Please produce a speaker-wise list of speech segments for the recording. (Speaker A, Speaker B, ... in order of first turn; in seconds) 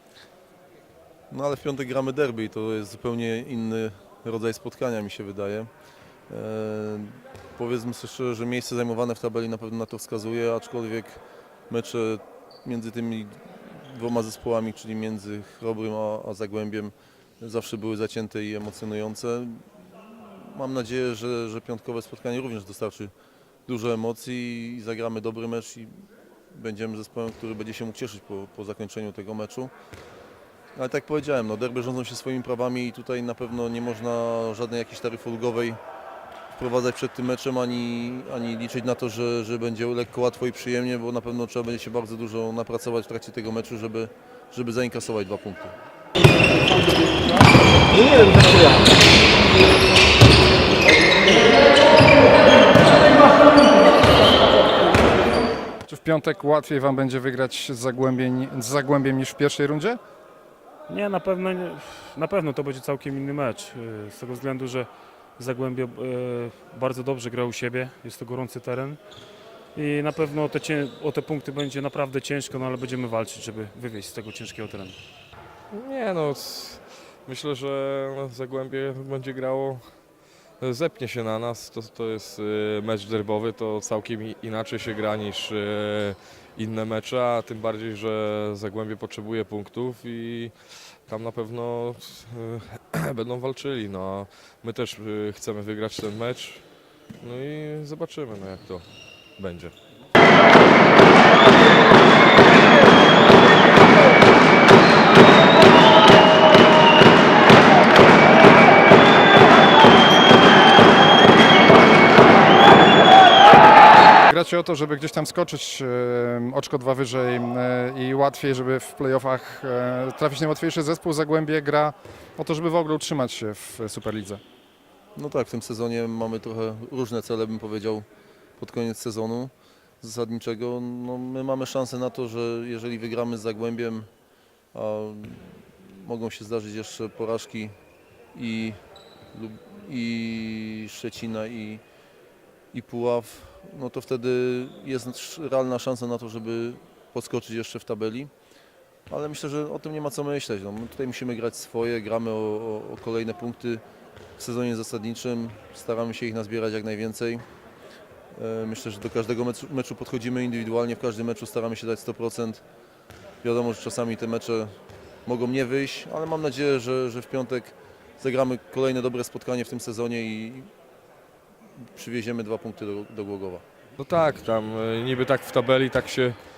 Speaker A: 1.3-5.7, 6.3-23.1, 23.7-29.7, 30.8-35.8, 36.5-45.8, 125.2-128.1, 128.6-134.1, 134.7-137.8, 138.3-138.8, 139.3-141.8, 142.7-148.3, 149.1-153.8, 154.4-157.4, 158.3-162.6, 163.4-170.7, 171.9-173.6
Speaker B: 55.9-60.0, 114.3-124.4
Speaker C: 60.9-69.0, 69.7-75.0
Speaker D: 75.7-79.8, 80.6-96.6, 97.2-98.9, 99.4-99.7, 174.0-176.4